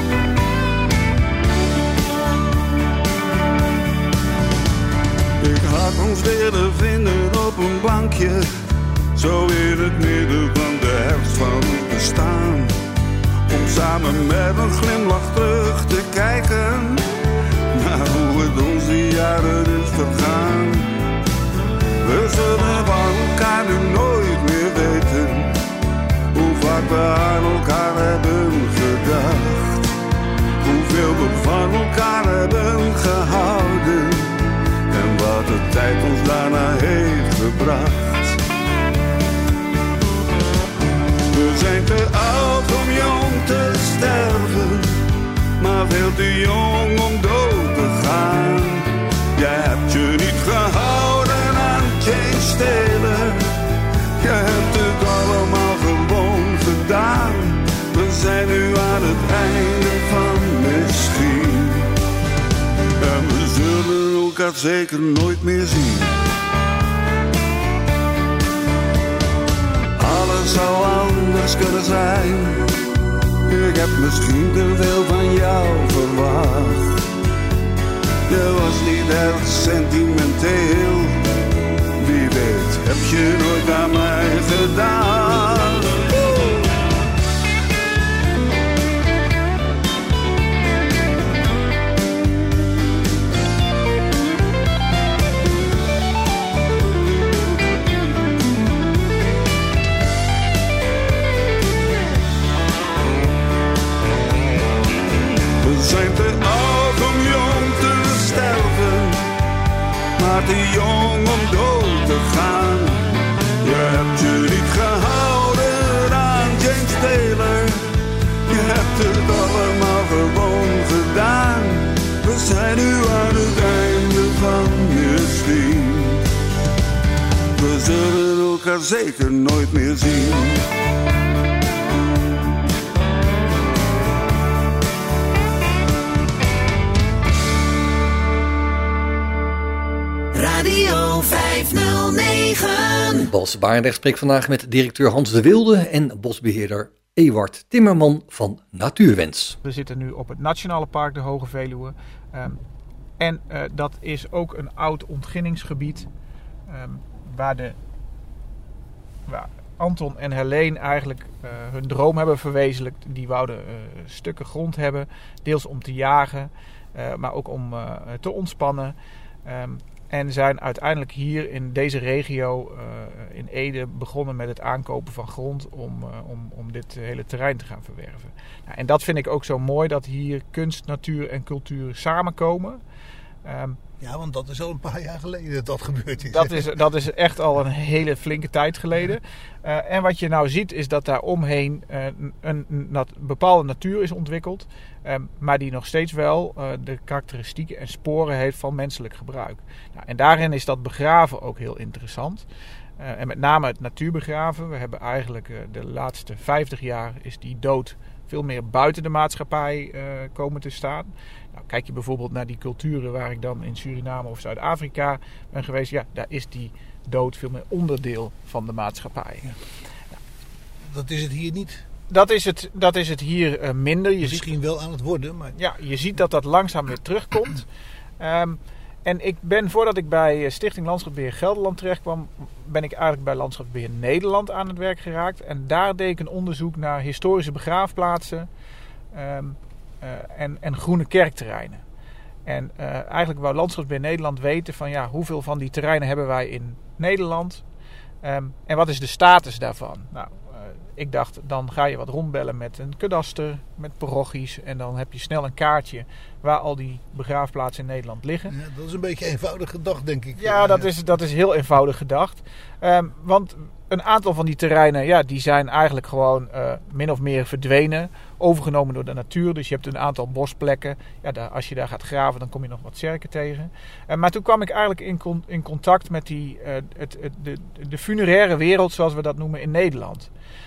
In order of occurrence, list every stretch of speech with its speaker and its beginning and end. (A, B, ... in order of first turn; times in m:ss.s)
0:05.4-0:08.5 A
0:09.1-0:12.8 A
0:13.5-0:17.1 A
0:17.7-0:21.0 A
0:22.0-0:25.6 A
0:26.3-0:29.9 A
0:30.6-0:38.4 A
0:41.3-0:45.0 A
0:45.6-0:53.4 A
0:54.2-1:01.9 A
1:03.0-1:06.2 A
1:10.0-1:12.7 A
1:13.4-1:17.0 A
1:18.3-1:21.3 A
1:22.0-1:26.2 A
1:45.6-1:49.3 A
1:50.2-1:57.9 A
1:58.5-2:06.3 A
2:07.5-2:10.7 A
2:20.3-2:23.3 B
2:23.2-2:29.6 C
2:29.6-2:32.6 D
2:33.2-2:36.1 D
2:36.7-2:37.8 D
2:39.2-3:02.8 D
3:03.4-3:03.8 D
3:04.0-3:06.7 E
3:06.3-3:22.5 D
3:23.0-3:39.6 D
3:40.8-3:41.9 E
3:42.1-3:44.5 D
3:44.2-3:45.6 E
3:45.5-3:47.6 D
3:48.2-3:58.5 D
3:59.1-4:01.8 D
4:02.5-4:07.6 D
4:08.2-4:18.5 D
4:18.5-4:20.9 E
4:20.4-4:40.3 D